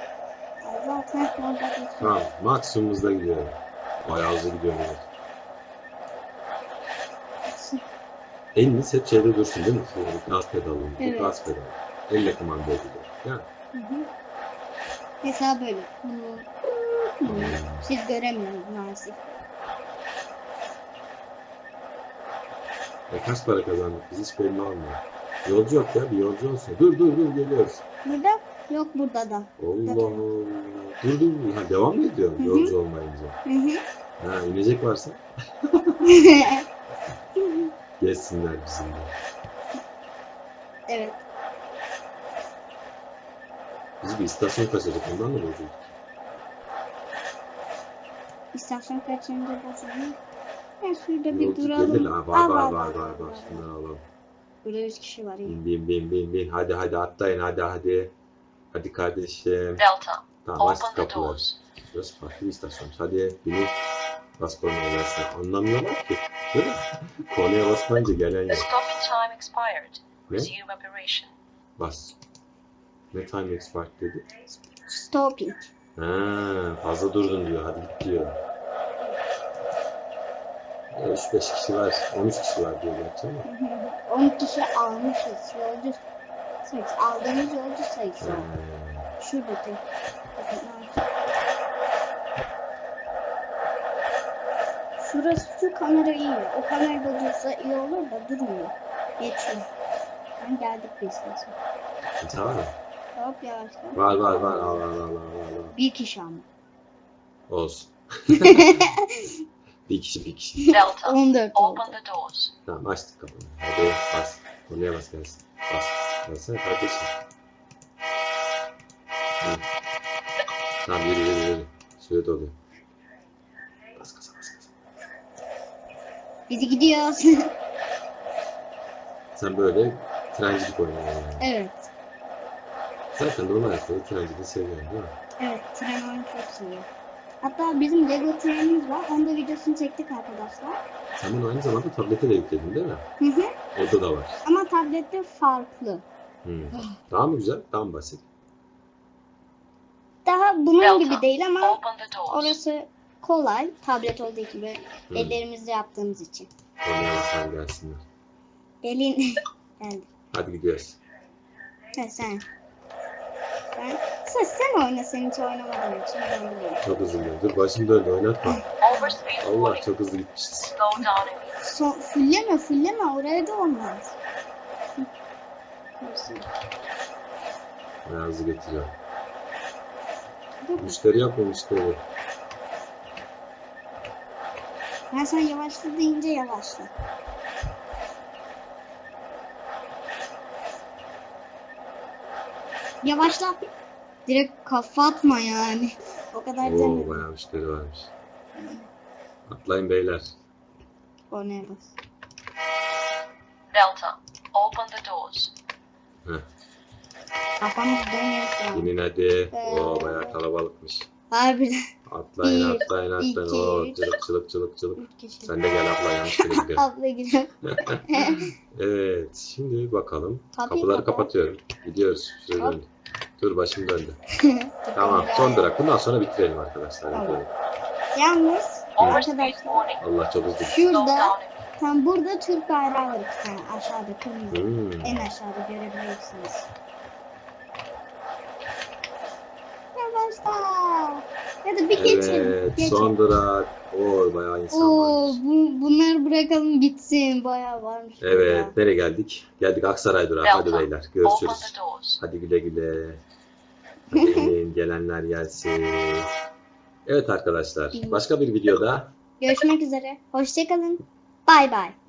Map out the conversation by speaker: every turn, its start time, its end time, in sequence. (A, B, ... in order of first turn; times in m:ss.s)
0:00.6-0:02.2 A
0:02.0-0:05.1 B
0:07.5-0:07.8 A
0:08.5-0:13.4 B
0:11.0-0:11.4 A
0:13.7-0:14.1 A
0:15.2-0:19.3 A
0:17.2-0:17.9 B
0:23.1-0:27.8 B
0:28.0-0:30.2 A
0:29.6-0:33.4 B
0:32.4-0:32.7 A
0:33.4-0:33.8 A
0:34.2-0:36.0 B
0:36.0-0:36.6 A
0:37.4-0:37.7 A
0:38.0-0:39.1 B
0:40.9-0:41.2 A
0:44.0-0:45.9 B
0:48.5-0:50.2 A
0:50.8-0:53.6 A
0:51.3-0:54.0 B
0:54.6-0:55.6 A
0:55.4-0:58.1 B
0:58.7-0:59.8 B
0:59.8-1:01.6 C
1:00.4-1:03.8 B
1:04.4-1:08.7 B
1:08.5-1:11.3 C
1:11.8-1:12.2 B
1:13.1-1:14.3 B
1:14.8-1:15.7 A
1:16.0-1:18.4 B
1:20.9-1:23.5 B
1:23.4-1:26.0 A
1:26.6-1:28.5 A
1:28.2-1:29.1 B
1:29.2-1:29.8 A
1:30.4-1:31.1 A
1:35.0-1:39.6 A
1:40.4-1:41.5 A
1:42.2-1:42.7 B
1:43.2-1:44.8 A
1:44.0-1:45.7 B
1:45.7-1:46.4 A
1:47.5-1:48.8 B
1:48.4-1:49.3 A
1:49.9-1:50.8 B
1:50.6-1:52.0 A
1:50.7-1:52.5 C
1:52.6-1:57.1 B
2:00.8-2:02.5 B
2:04.0-2:04.7 B
2:06.5-2:07.5 A
2:09.4-2:11.5 B
2:11.4-2:11.9 A
2:13.1-2:15.1 B
2:15.4-2:16.9 A
2:17.4-2:20.8 A
2:21.2-2:23.0 B
2:23.2-2:23.5 A
2:23.7-2:24.4 B
2:24.4-2:26.0 A
2:26.4-2:28.2 B
2:30.2-2:36.5 A
2:30.8-2:32.6 C
2:35.1-2:35.4 B
2:36.8-2:38.0 B
2:38.8-2:40.1 A
2:40.3-2:41.0 B
2:41.9-2:42.4 A
2:43.7-2:46.9 A
2:46.8-2:48.6 B
2:48.8-2:49.8 C
2:49.4-2:50.7 B
2:50.7-2:51.5 C
2:51.6-2:54.2 A
2:56.0-2:56.4 A
2:58.0-2:58.9 B
3:00.6-3:01.0 A
3:00.8-3:02.0 B
3:05.1-3:06.9 A
3:13.0-3:13.6 A
3:14.3-3:17.3 A
3:16.6-3:18.1 B
3:18.6-3:18.8 A
3:19.5-3:20.3 B
3:21.3-3:21.9 A
3:23.7-3:25.5 C
3:27.6-3:28.9 A
3:28.7-3:31.1 B
3:29.5-3:30.4 A
3:31.3-3:31.8 A
3:32.1-3:36.8 B
3:32.4-3:34.2 A
3:35.0-3:35.5 A
3:36.3-3:38.5 A
3:37.7-3:44.2 B
3:40.5-3:41.3 A
3:44.4-3:45.7 A
3:44.9-3:47.5 B
3:47.1-3:47.4 A
3:48.1-3:49.8 A
3:49.0-3:50.0 C
3:50.0-3:50.8 B
3:50.6-3:56.7 A
3:50.8-3:51.6 C
3:54.5-3:55.3 B
3:59.9-4:03.2 A
4:01.9-4:05.4 B
4:04.7-4:08.7 A
4:08.2-4:13.2 B
4:10.4-4:12.2 C
4:14.1-4:16.3 B
4:14.1-4:14.5 A
4:17.0-4:19.1 B
4:17.9-4:18.2 A
4:19.4-4:22.0 A